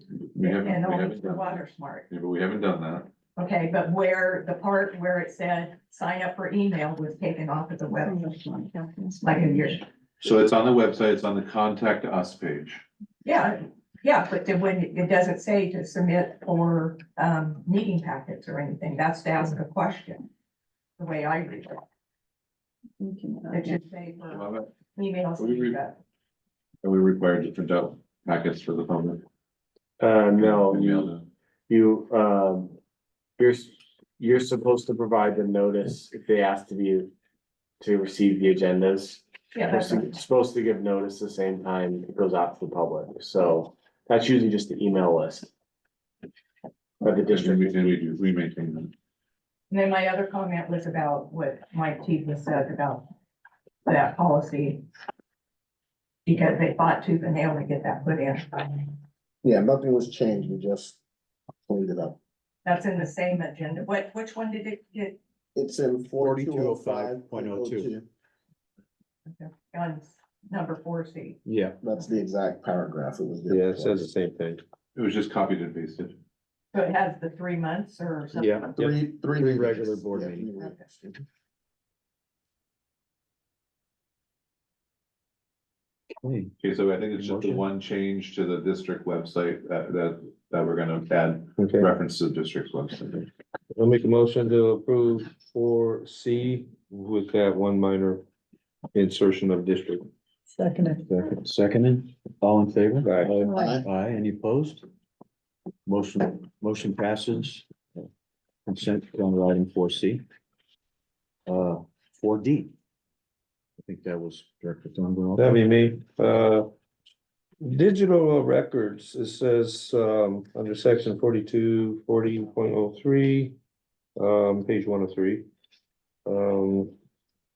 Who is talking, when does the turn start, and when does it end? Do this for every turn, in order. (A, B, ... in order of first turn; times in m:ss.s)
0:00.3-0:01.6 A
0:00.4-0:02.1 B
0:02.1-0:03.1 A
0:03.4-0:08.6 B
0:08.1-0:09.2 C
0:09.2-0:09.8 B
0:10.2-0:12.8 A
0:13.2-0:20.2 B
0:21.0-0:21.8 B
0:23.0-0:23.8 C
0:23.5-0:24.4 B
0:24.3-0:24.7 A
0:25.0-0:26.0 B
0:25.4-0:25.8 A
0:26.8-0:29.2 A
0:30.0-0:31.2 D
0:30.3-0:31.2 A
0:31.7-0:32.8 D
0:33.4-0:37.1 D
0:37.8-0:45.5 D
0:39.5-0:40.1 B
0:47.0-0:48.0 D
0:47.1-0:48.9 A
0:49.7-0:53.1 B
0:53.9-0:54.8 B
0:56.3-0:59.0 B
0:59.4-1:01.0 E
1:01.7-1:02.2 E
1:02.6-1:05.2 B
1:05.6-1:08.1 E
1:06.2-1:07.9 F
1:09.3-1:11.4 B
1:11.5-1:11.8 F
1:11.8-1:14.1 E
1:13.5-1:14.6 G
1:15.0-1:16.2 A
1:16.7-1:18.6 B
1:18.3-1:20.5 F
1:18.8-1:21.2 E
1:26.2-1:26.5 F
1:26.6-1:33.3 A
1:27.1-1:27.7 F
1:31.6-1:31.9 G
1:33.7-1:38.2 G
1:39.0-1:40.1 G
1:40.5-1:41.1 C
1:41.1-1:44.9 F
1:43.0-1:43.3 G
1:43.5-1:43.9 E
1:45.9-1:48.1 F
1:48.7-1:50.2 F
1:51.5-1:52.7 F
1:53.8-1:55.6 F
1:55.4-1:56.7 G
1:57.6-2:03.6 G
2:04.2-2:05.5 G
2:06.3-2:06.9 G